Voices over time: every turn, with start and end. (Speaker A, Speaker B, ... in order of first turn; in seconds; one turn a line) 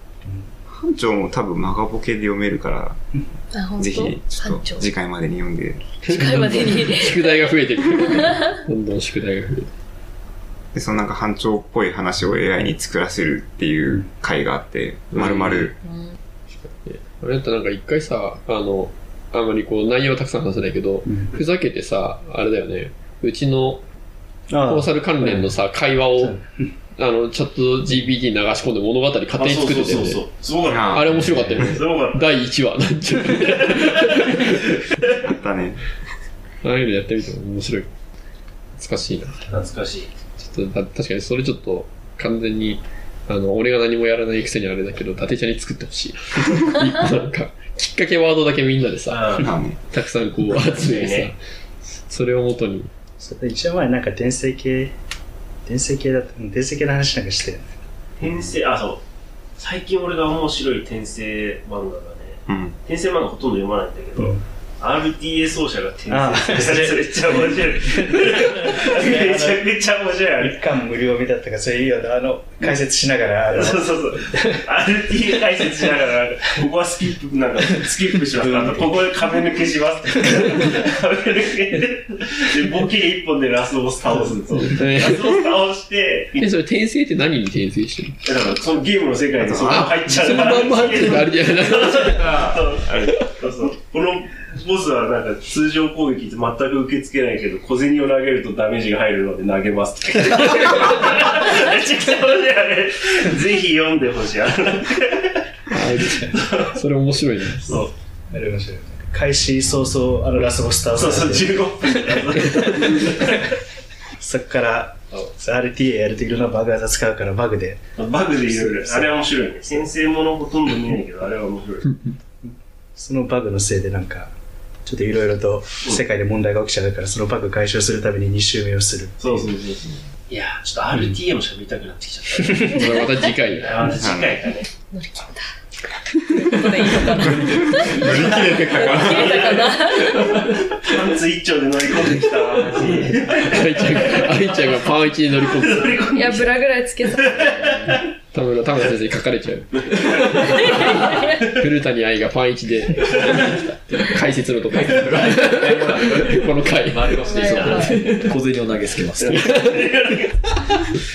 Speaker A: 0.7-3.2
Speaker B: 3.5-4.9
Speaker A: 3.8-6.0
Speaker C: 6.1-9.7
Speaker B: 6.1-7.5
Speaker B: 8.2-8.5
Speaker A: 10.7-15.8
Speaker C: 15.1-15.7
Speaker B: 15.8-16.2
Speaker C: 16.5-23.8
Speaker D: 21.1-21.4
Speaker D: 24.5-25.5
Speaker C: 24.6-26.4
Speaker D: 26.2-26.7
Speaker C: 27.0-30.2
Speaker E: 29.3-32.3
Speaker A: 30.7-31.8
Speaker C: 30.9-34.7
Speaker E: 33.4-35.1
Speaker A: 35.2-35.8
Speaker C: 36.6-37.9
Speaker C: 38.8-39.5
Speaker E: 39.5-40.1
Speaker C: 40.4-49.2
Speaker E: 49.1-49.5
Speaker A: 49.4-49.8
Speaker C: 49.9-51.4
Speaker E: 50.6-51.3
Speaker C: 52.1-52.9
Speaker D: 53.2-54.9
Speaker D: 55.7-57.7
Speaker E: 58.2-59.0
Speaker E: 59.6-70.5
Speaker A: 62.5-62.8
Speaker D: 64.2-64.4
Speaker D: 66.1-69.7
Speaker D: 70.2-74.6
Speaker E: 73.5-86.5
Speaker C: 84.7-85.5
Speaker C: 86.4-88.2
Speaker E: 88.3-105.4
Speaker A: 89.4-90.7
Speaker C: 89.6-92.4
Speaker A: 92.4-93.1
Speaker C: 105.7-107.8
Speaker E: 106.2-106.7
Speaker E: 107.6-107.9
Speaker D: 108.3-113.1
Speaker E: 111.0-113.4
Speaker D: 114.2-117.8
Speaker E: 118.0-121.9
Speaker D: 118.5-119.1
Speaker D: 122.4-124.3
Speaker D: 124.8-129.5
Speaker E: 129.2-132.8
Speaker C: 132.7-133.9
Speaker E: 133.5-134.7
Speaker A: 134.0-134.3
Speaker B: 134.7-135.4
Speaker B: 136.4-140.4
Speaker A: 137.2-139.6
Speaker E: 137.8-144.8
Speaker C: 138.4-138.8
Speaker C: 143.2-146.1
Speaker E: 145.4-148.1
Speaker B: 146.1-147.5
Speaker C: 147.6-158.2
Speaker E: 149.9-151.6
Speaker B: 150.6-151.1
Speaker E: 153.3-153.6
Speaker F: 155.4-156.3
Speaker B: 157.2-158.0
Speaker F: 157.7-159.4
Speaker E: 157.9-158.3
Speaker E: 159.1-160.6
Speaker C: 159.4-160.0